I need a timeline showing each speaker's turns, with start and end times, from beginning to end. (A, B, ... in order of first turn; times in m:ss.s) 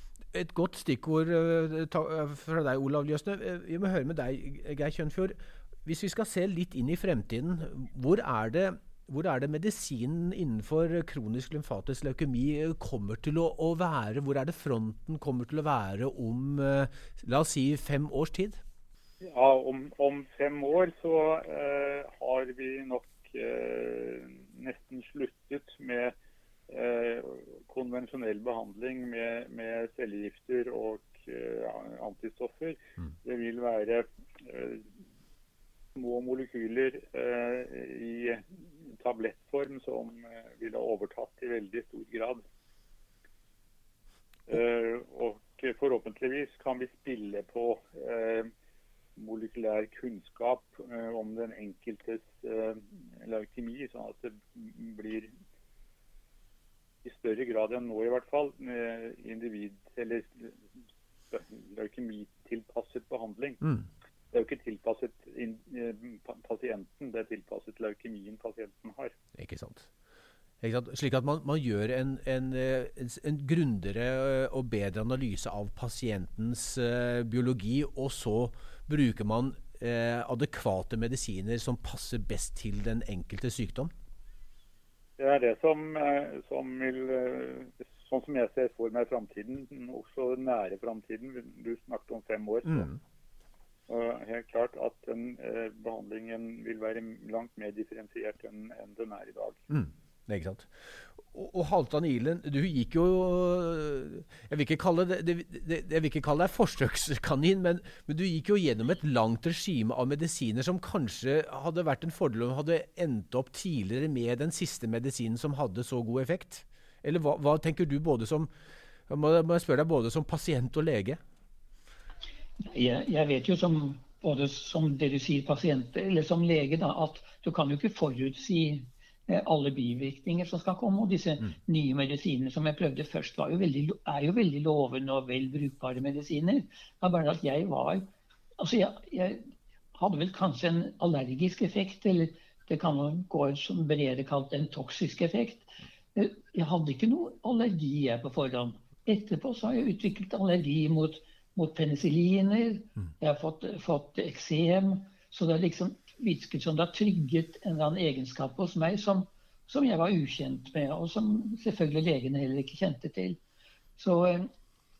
0:00.3-0:18.6 A
0:19.2-0:26.1 B
0:26.7-0:34.9 B
0:36.0-0:42.4 B
0:44.5-0:48.5 B
0:49.2-0:55.3 B
0:57.0-1:00.6 B
1:01.3-1:03.6 B
1:04.3-1:09.2 B
1:09.4-1:09.9 A
1:10.6-1:23.9 A
1:25.2-1:32.9 B
1:32.7-1:33.0 A
1:33.9-1:39.6 B
1:39.7-1:58.5 A
1:59.1-2:01.2 A
2:02.6-2:43.4 C
2:44.0-2:44.5 C